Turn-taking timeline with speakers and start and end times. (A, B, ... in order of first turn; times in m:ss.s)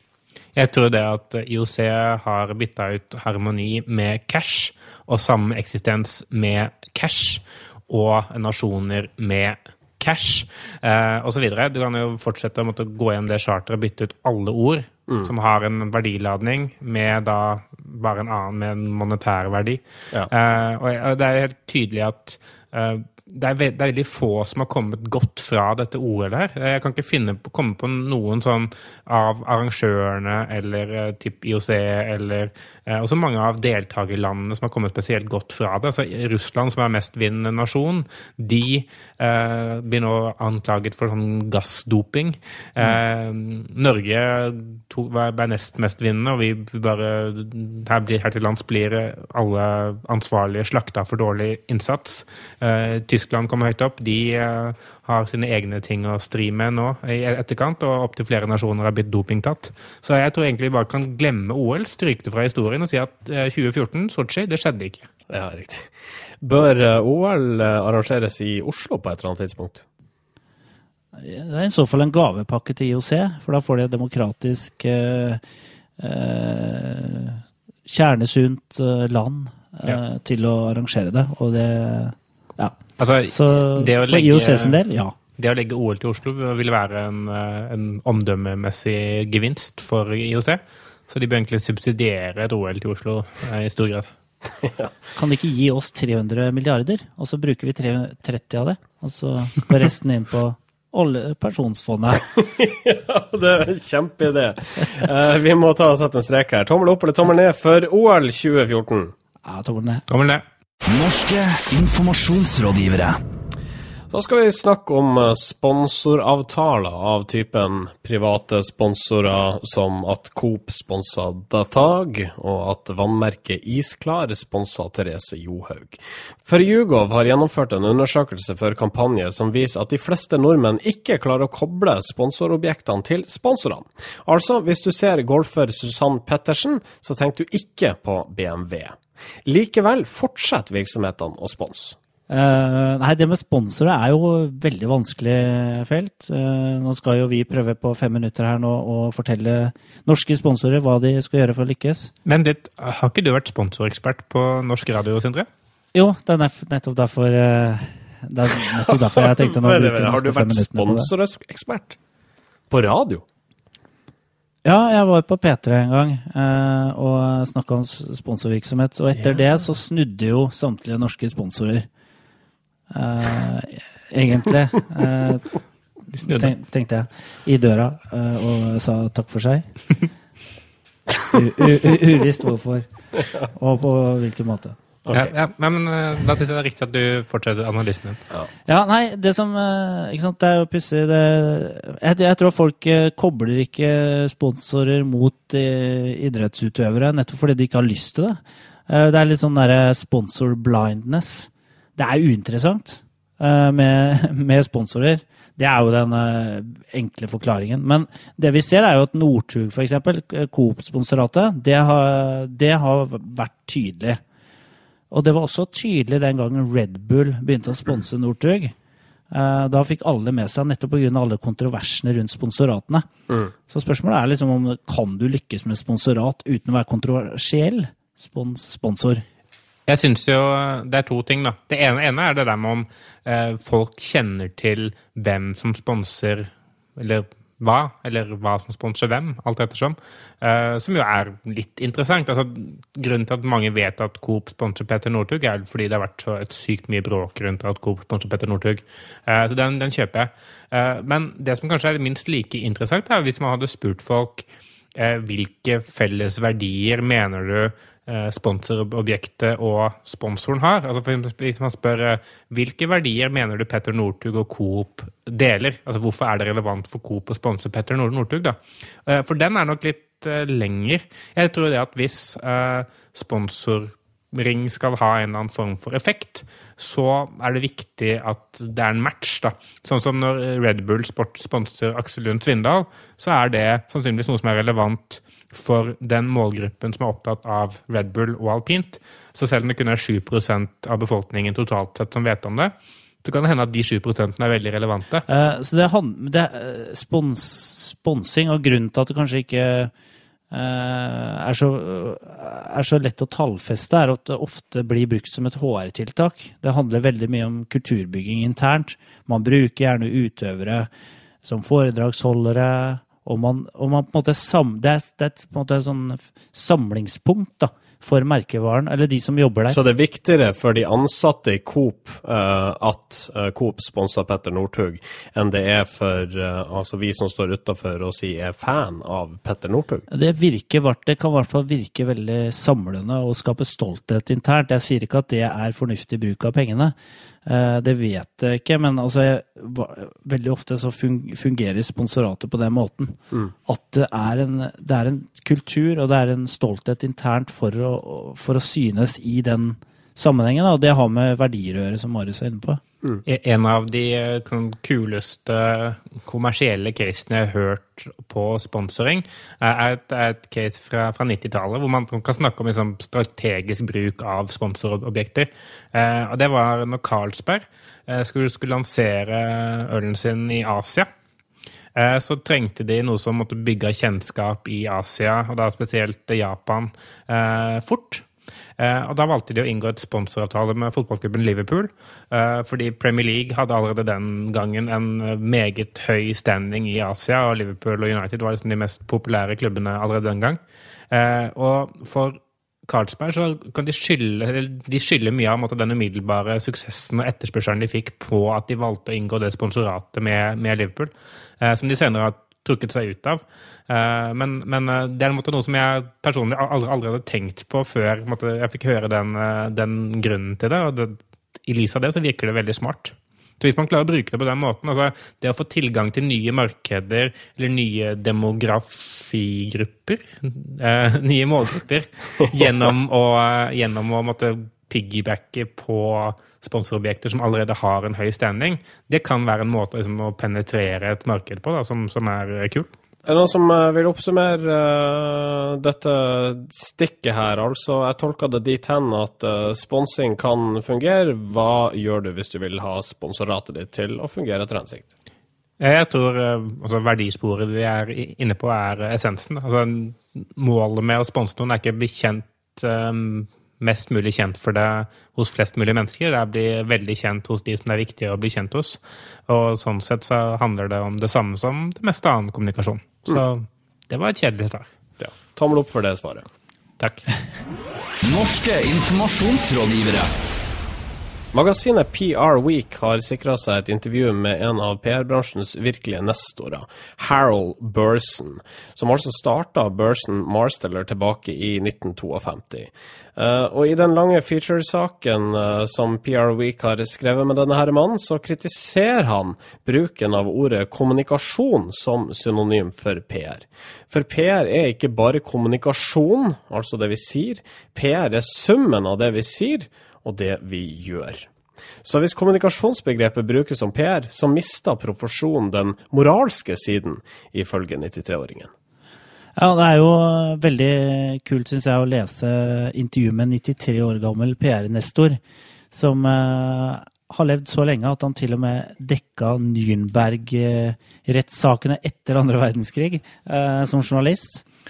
0:00.5-1:05.1 A
1:05.3-1:09.8 B
1:11.2-1:15.4 C
1:16.0-1:22.7 C
1:23.0-1:24.8 A
1:23.3-1:25.1 C
1:25.4-1:34.1 A
1:34.6-1:35.0 B
1:35.2-1:42.2 C
1:42.3-1:49.1 B
1:49.4-1:50.0 C
1:50.1-1:50.4 A
1:50.9-1:53.2 D
1:54.1-2:22.0 B
2:22.3-2:32.1 C
2:32.2-2:35.5 A
2:35.9-2:41.1 C
2:38.8-2:42.0 B
2:42.7-2:43.2 B
2:44.6-2:51.9 C
2:52.9-2:55.6 C
2:56.1-2:59.6 C
2:56.2-2:56.5 A
3:01.3-3:02.9 C
3:03.4-3:04.8 C
3:05.0-3:05.3 B
3:05.1-3:08.2 A
3:08.7-3:34.2 C
3:35.1-3:38.7 C
3:39.3-3:43.0 C
3:43.7-3:49.2 C
3:49.9-4:55.2 A
4:55.3-4:59.9 C
5:00.5-5:10.9 C
5:11.4-5:19.8 C
5:19.7-5:30.1 B
5:30.1-5:36.9 C
5:37.4-5:52.8 C
5:53.2-6:11.1 A
6:11.9-6:18.2 A
6:18.8-6:30.6 A
6:31.1-7:12.9 A
7:13.2-7:25.1 B
7:25.8-7:44.9 A
7:45.2-7:46.4 B
7:47.0-7:47.3 A
7:48.2-7:50.3 D
7:51.5-8:21.5 B
8:22.0-8:28.7 B
8:29.6-8:35.4 C
8:35.9-8:44.6 C